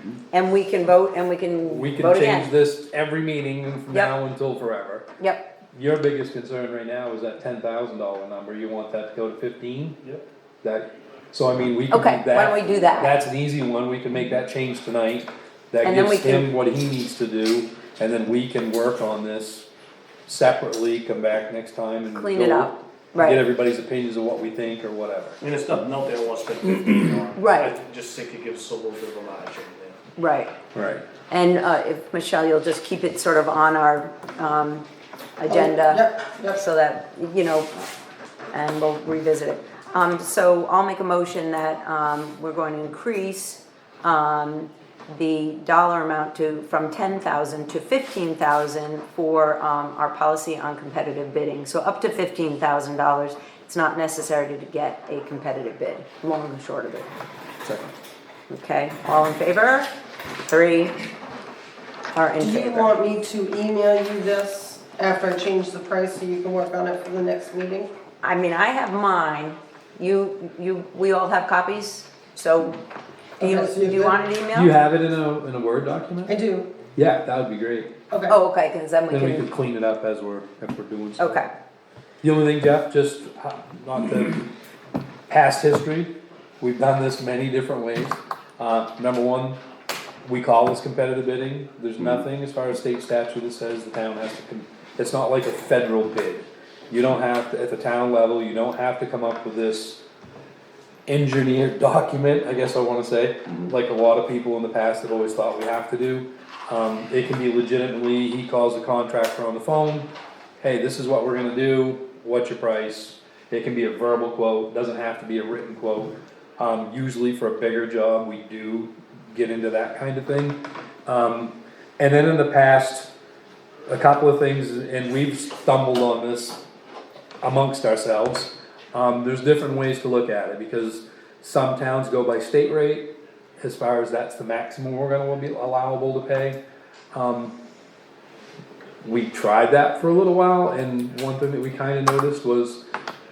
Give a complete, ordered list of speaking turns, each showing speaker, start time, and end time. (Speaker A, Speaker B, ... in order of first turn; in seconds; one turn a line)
Speaker A: 0.3-2.5
Speaker B: 1.6-5.1
Speaker A: 5.2-5.5
Speaker B: 5.7-10.0
Speaker B: 10.6-19.7
Speaker A: 11.9-13.2
Speaker A: 15.8-16.5
Speaker B: 20.3-25.4
Speaker A: 22.1-23.4
Speaker C: 25.4-30.0
Speaker A: 27.3-27.7
Speaker A: 30.2-30.5
Speaker B: 30.7-31.0
Speaker A: 31.3-34.8
Speaker A: 35.4-37.9
Speaker D: 35.5-36.6
Speaker A: 38.5-57.1
Speaker B: 57.6-57.9
Speaker A: 58.5-59.9
Speaker A: 60.5-61.0
Speaker A: 62.1-62.9
Speaker D: 62.4-67.9
Speaker A: 68.2-72.8
Speaker D: 73.4-74.2
Speaker A: 73.4-74.7
Speaker B: 74.5-76.3
Speaker D: 76.3-76.7
Speaker B: 77.0-77.9
Speaker D: 78.1-78.4
Speaker A: 78.3-79.5
Speaker B: 79.1-81.4
Speaker A: 81.2-81.5
Speaker B: 82.2-84.5
Speaker B: 85.3-89.6
Speaker B: 90.2-100.0
Speaker B: 101.1-110.1
Speaker B: 110.6-123.1
Speaker B: 123.9-126.6
Speaker B: 127.4-136.6
Speaker B: 137.1-137.6
Speaker B: 139.0-142.8